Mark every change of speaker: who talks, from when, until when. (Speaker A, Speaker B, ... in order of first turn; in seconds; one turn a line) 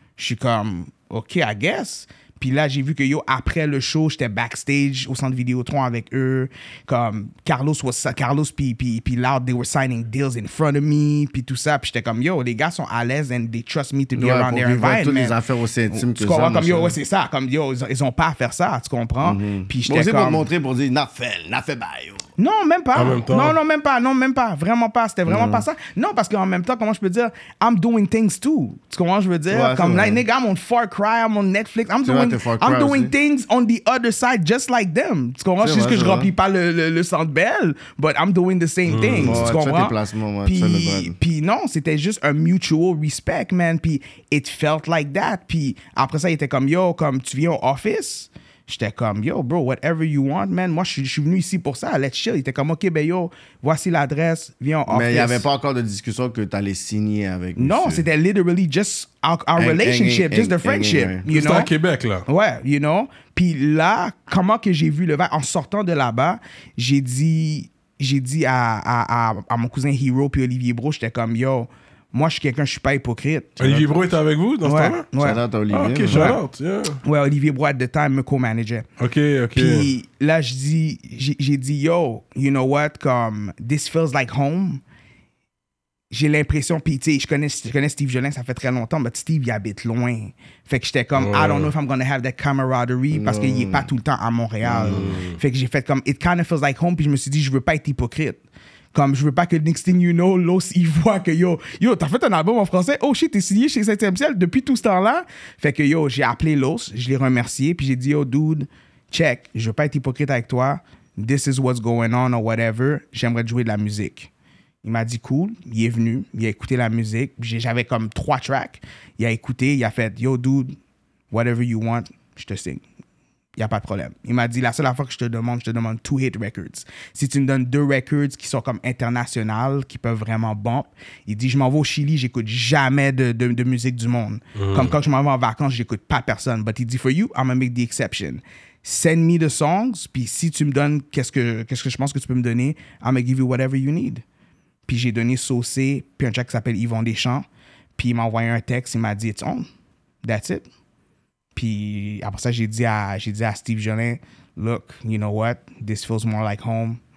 Speaker A: 0.2-15.4
Speaker B: 14.2-17.0
Speaker A: 15.9-20.5
Speaker B: 19.2-22.2
Speaker A: 22.4-55.5
Speaker C: 22.9-23.6
Speaker B: 25.3-25.7
Speaker B: 29.5-30.2
Speaker B: 32.0-33.1
Speaker B: 35.6-36.3
Speaker C: 38.9-39.5
Speaker B: 39.2-41.2
Speaker B: 54.9-58.1
Speaker A: 57.6-61.7
Speaker B: 59.6-61.2
Speaker C: 61.3-62.3
Speaker A: 62.3-73.7
Speaker C: 73.6-75.1
Speaker B: 73.6-73.9
Speaker A: 74.6-75.4
Speaker B: 75.2-76.3
Speaker C: 75.7-77.0
Speaker A: 76.1-76.4
Speaker A: 77.0-78.9
Speaker C: 79.0-79.9
Speaker A: 79.5-84.8
Speaker A: 86.1-98.4
Speaker C: 91.2-91.7
Speaker B: 93.1-93.9
Speaker B: 94.6-95.2
Speaker C: 94.8-95.4
Speaker A: 98.9-114.3
Speaker A: 114.8-120.8
Speaker A: 121.3-122.8
Speaker A: 123.6-144.2
Speaker C: 134.6-134.9
Speaker A: 144.9-147.5
Speaker A: 148.0-149.7
Speaker A: 150.2-150.7
Speaker A: 151.6-157.0